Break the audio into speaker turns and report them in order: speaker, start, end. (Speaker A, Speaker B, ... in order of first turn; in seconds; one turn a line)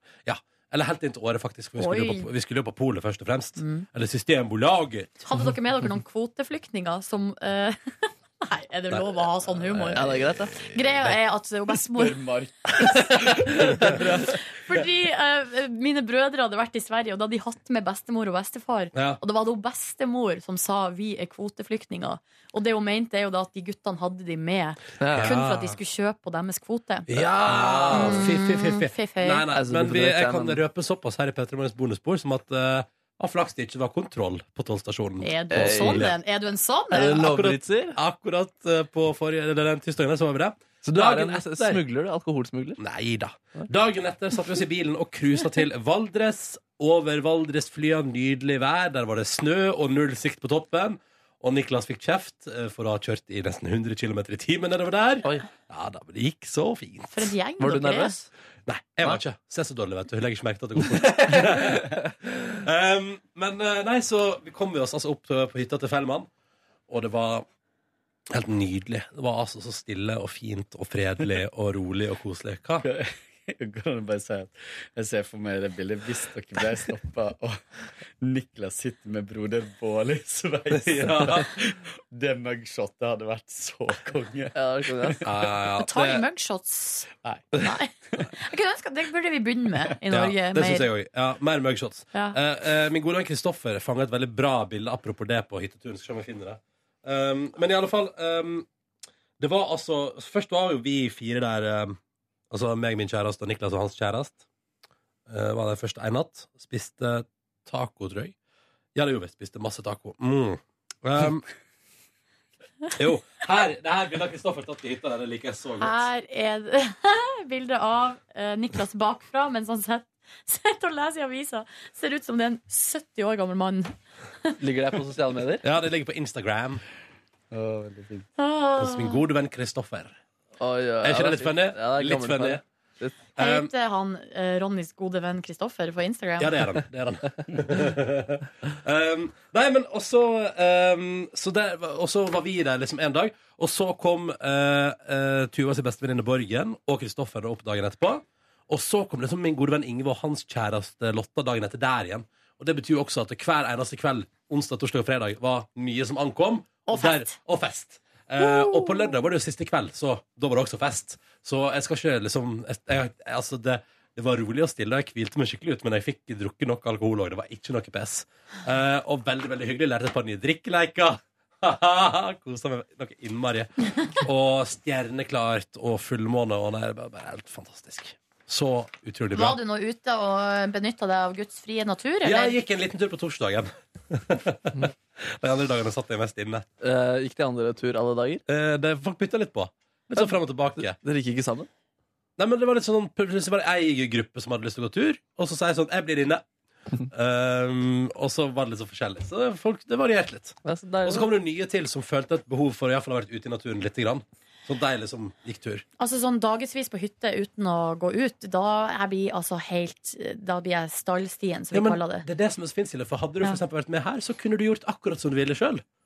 Speaker A: 0.2-5.2
Speaker B: 1.8-2.3
Speaker B: 3.6-3.9
Speaker B: 5.3-12.2
Speaker A: 8.9-10.0
Speaker C: 9.9-10.6
Speaker A: 10.6-11.1
Speaker D: 11.9-14.2
Speaker B: 14.0-27.2
Speaker A: 18.9-19.2
Speaker C: 25.0-25.3
Speaker A: 25.1-25.8
Speaker A: 27.1-36.1
Speaker C: 27.6-28.3
Speaker B: 27.9-29.5
Speaker C: 29.5-30.6
Speaker B: 35.2-37.2
Speaker C: 35.5-36.1
Speaker C: 36.9-38.0
Speaker A: 37.0-41.8
Speaker C: 40.8-42.8
Speaker A: 42.8-57.3
Speaker B: 57.1-58.1
Speaker C: 57.6-58.3
Speaker A: 58.7-66.3
Speaker A: 66.9-67.5
Speaker A: 68.3-72.8
Speaker D: 72.8-77.6
Speaker D: 78.2-85.3
Speaker A: 80.7-81.5
Speaker C: 84.5-85.2
Speaker A: 85.2-86.2
Speaker B: 85.8-90.9
Speaker A: 90.1-98.7
Speaker A: 99.4-102.0
Speaker A: 102.5-104.4
Speaker A: 105.3-108.3
Speaker A: 108.9-111.5
Speaker A: 112.9-116.0
Speaker B: 115.8-124.6
Speaker C: 124.6-125.7
Speaker A: 125.6-126.8
Speaker D: 127.5-128.3
Speaker B: 128.4-129.2
Speaker A: 128.8-130.2
Speaker C: 130.6-133.2
Speaker A: 131.0-132.6
Speaker B: 133.3-136.6
Speaker A: 133.4-133.7
Speaker A: 136.4-179.6
Speaker B: 156.9-157.3
Speaker B: 158.4-159.1
Speaker B: 179.3-182.6
Speaker A: 182.2-186.6
Speaker C: 186.8-188.4
Speaker A: 188.5-191.0
Speaker C: 190.1-191.7
Speaker A: 192.4-196.4
Speaker A: 197.1-205.8
Speaker C: 200.6-201.3
Speaker B: 206.0-212.2
Speaker A: 211.7-215.8